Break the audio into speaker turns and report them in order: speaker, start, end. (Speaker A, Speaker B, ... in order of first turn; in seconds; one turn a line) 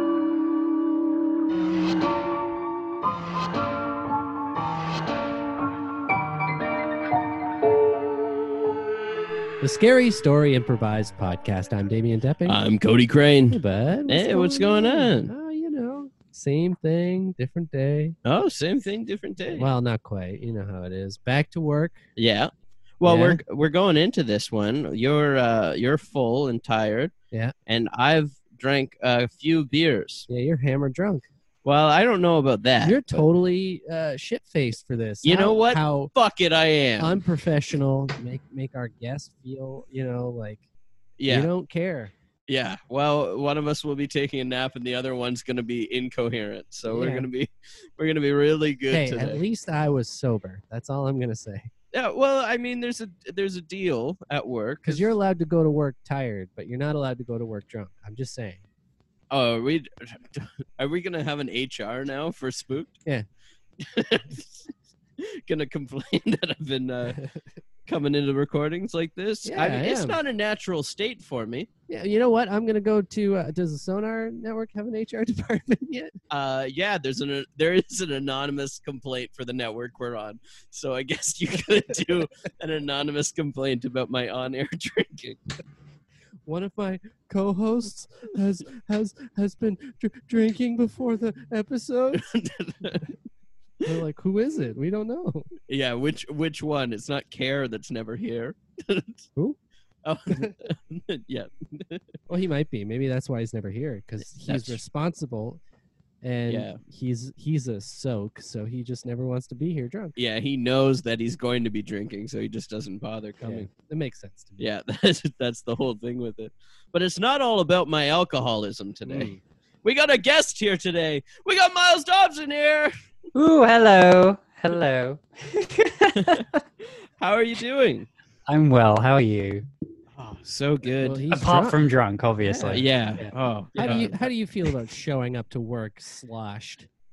Speaker A: 9.6-12.6
Speaker B: 12.5-15.3
Speaker A: 13.5-18.2
Speaker B: 18.2-19.7
Speaker A: 19.5-22.0
Speaker B: 22.2-27.1
Speaker A: 23.0-23.4
Speaker B: 27.7-30.3
Speaker A: 30.3-31.3
Speaker B: 31.6-33.2
Speaker A: 32.8-36.1
Speaker B: 35.2-37.2
Speaker A: 37.0-40.6
Speaker B: 41.2-41.5
Speaker A: 41.3-42.1
Speaker B: 42.5-49.4
Speaker A: 46.9-47.3
Speaker A: 48.9-51.7
Speaker B: 51.9-55.1
Speaker A: 54.9-58.6
Speaker B: 59.3-63.0
Speaker B: 63.8-67.2
Speaker B: 67.9-71.7
Speaker A: 69.4-70.2
Speaker A: 71.9-76.1
Speaker B: 76.3-85.4
Speaker A: 86.5-92.3
Speaker B: 92.1-93.1
Speaker A: 93.8-95.5
Speaker B: 95.7-99.3
Speaker B: 100.0-102.0
Speaker A: 102.3-105.6
Speaker B: 104.4-104.8
Speaker A: 106.2-110.1
Speaker B: 106.5-106.8
Speaker B: 110.2-113.7
Speaker A: 113.4-114.7
Speaker B: 114.6-119.3
Speaker A: 119.1-119.4
Speaker B: 119.8-122.9
Speaker C: 123.3-126.6
Speaker B: 126.2-126.4
Speaker B: 127.2-128.1
Speaker C: 128.5-129.7
Speaker B: 130.2-131.2
Speaker A: 131.0-131.8
Speaker C: 131.3-134.2
Speaker A: 132.5-132.8
Speaker B: 132.7-134.1
Speaker A: 133.8-136.9